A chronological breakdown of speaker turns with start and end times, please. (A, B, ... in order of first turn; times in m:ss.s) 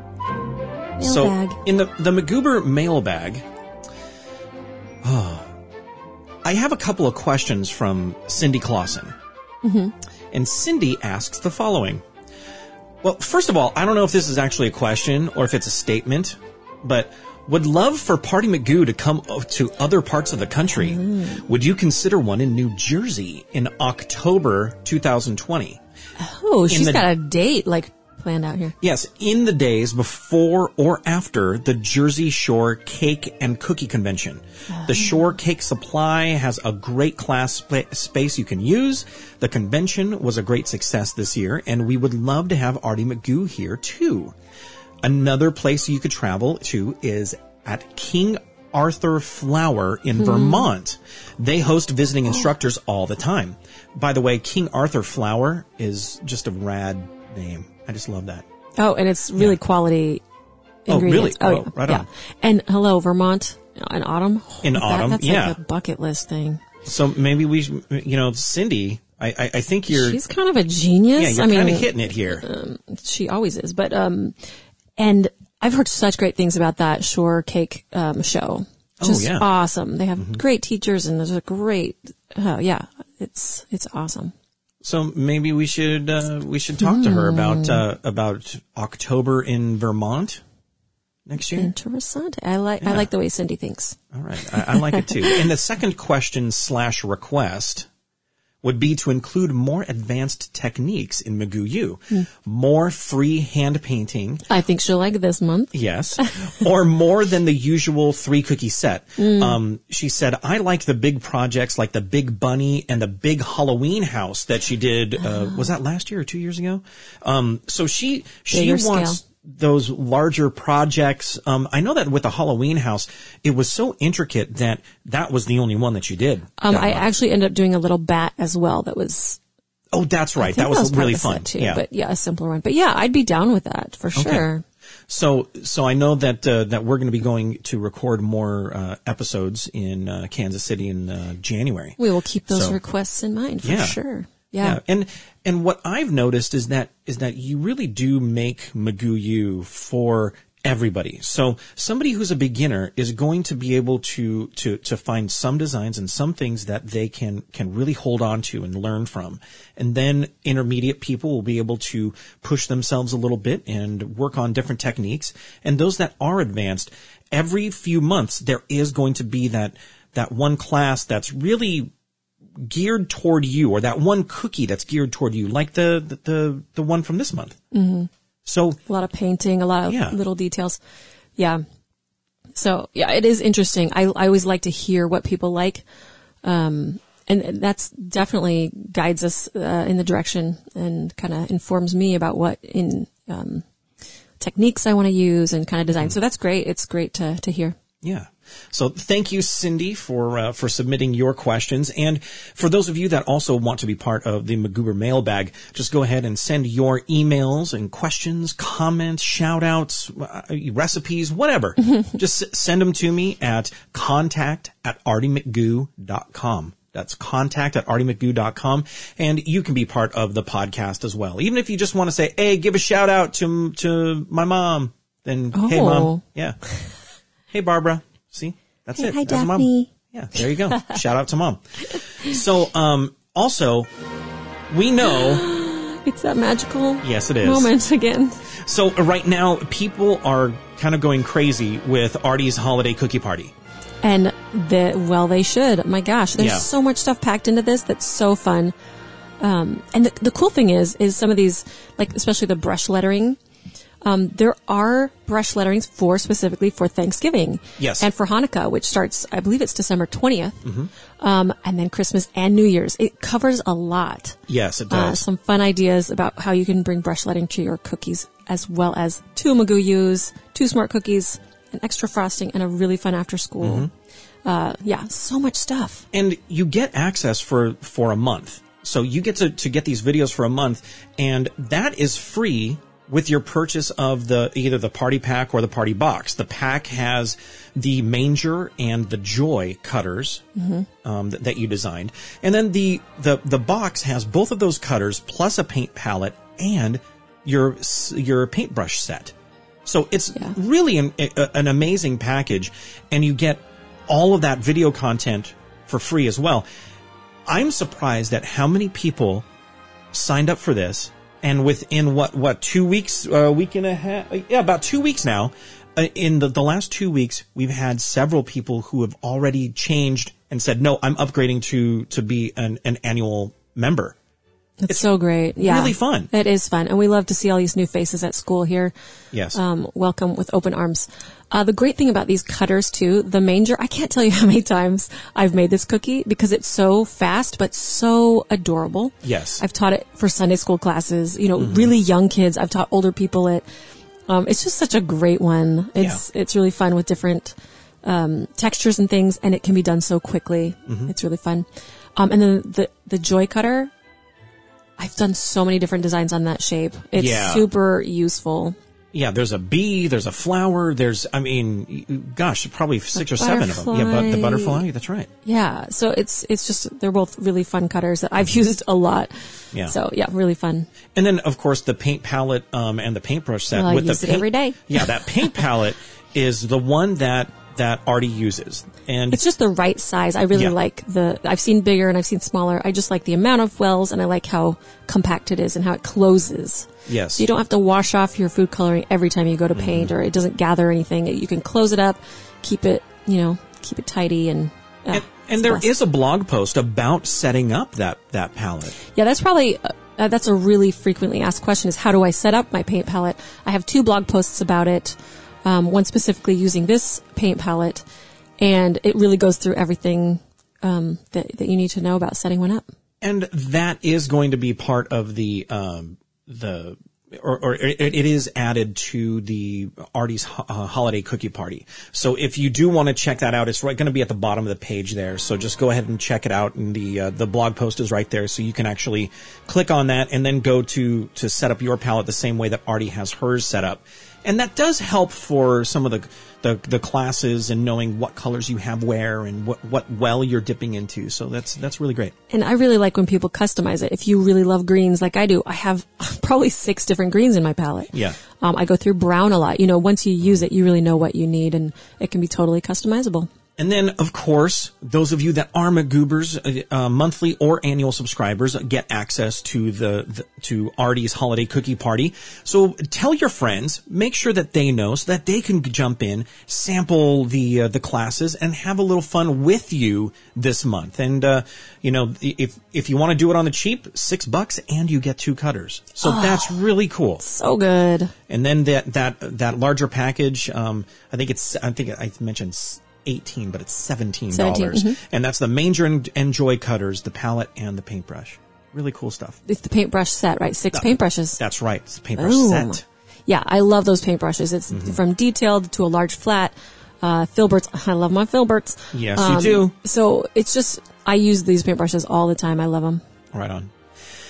0:01.0-0:01.6 A
0:01.0-0:03.4 B
0:05.0-0:05.5 B
0:06.4-0:09.1 B
0:09.6-0:09.9 A
0:10.3-0:12.0 B
0:13.0-0:25.8 B
0:20.7-0:21.4 A
0:26.2-0:28.8 A
0:26.7-0:27.1 B
0:28.8-0:44.4 B
0:34.7-0:35.2 A
0:45.0-0:58.4 B
0:50.2-0:50.7 A
0:58.8-1:00.2 A
1:00.9-1:06.6 A
1:00.9-1:02.1 B
1:04.6-1:05.6 B
1:06.8-1:10.2 B
1:09.9-1:14.4 A
1:11.2-1:12.4 B
1:15.0-1:24.3 A
1:19.0-1:19.5 B
1:24.8-1:30.4 B
1:26.8-1:27.8 A
1:31.3-1:31.7 B
1:31.4-1:35.5 A
1:32.8-1:33.1 B
1:34.1-1:37.9 B
1:38.6-1:44.4 B
1:44.5-1:46.5 A
1:45.7-2:07.1 B
1:49.2-1:49.6 A
1:55.2-1:55.7 A
1:58.5-1:59.2 A
2:06.6-2:09.4 A
2:09.9-2:11.8 B
2:10.4-2:14.6 A
2:14.2-2:14.5 B
2:15.1-2:22.0 B
2:22.0-2:24.8 A
2:22.5-2:22.8 B
2:23.6-2:24.0 B
2:24.6-2:51.9 B
2:52.6-2:57.6 B
2:57.7-2:58.1 A
2:58.5-2:58.8 B
2:58.9-3:00.8 A
2:59.9-3:00.2 B
3:01.4-3:01.6 A
3:02.6-3:05.8 A
3:06.4-3:13.6 A
3:14.4-3:17.8 A
3:18.0-3:46.6 B
3:45.6-3:46.2 A
3:47.5-3:53.9 B
3:49.0-3:51.0 A
3:51.9-3:52.4 A
3:54.7-3:55.4 B
3:55.0-3:58.4 A
3:57.0-3:57.7 B
3:58.5-4:03.5 B
4:04.0-4:08.7 A
4:06.4-4:06.7 B
4:09.4-4:13.4 A
4:14.0-4:20.6 A
4:17.8-4:18.1 B
4:20.6-4:20.9 B
4:21.2-4:33.9 A
4:24.5-4:25.2 B
4:33.6-4:33.9 B
4:34.4-4:36.1 A
4:36.1-4:50.4 B
4:50.6-4:50.9 A
4:51.0-4:59.3 B
4:59.8-5:06.6 B
5:07.5-5:09.5 B
5:10.1-5:24.2 B
5:24.8-5:28.9 A
5:25.6-5:26.3 B
5:29.3-5:29.6 B
5:29.5-5:43.6 A
5:39.2-5:39.6 B
5:41.6-5:41.9 B
5:44.3-5:53.9 A
5:50.9-5:51.1 B
5:55.0-5:58.8 A
5:57.2-5:57.7 B
5:59.1-6:05.3 B
6:03.2-6:04.8 A
6:05.4-6:10.9 A
6:11.1-6:19.4 B
6:13.7-6:15.6 A
6:19.3-6:35.9 A
6:27.1-6:27.5 B
6:29.7-6:30.1 B
6:35.1-6:39.0 B
6:39.1-6:48.0 A
6:48.6-6:52.8 A
6:53.2-7:22.3 B
7:22.5-7:33.5 A
7:33.8-7:57.4 B
7:56.2-7:56.8 A
7:57.4-7:58.3 A
7:58.5-8:09.6 B
8:04.5-8:05.2 A
8:09.7-8:11.6 A
8:10.9-8:13.0 B
8:12.4-8:23.2 A
8:14.9-8:15.2 B
8:19.1-8:19.9 B
8:23.5-8:23.9 B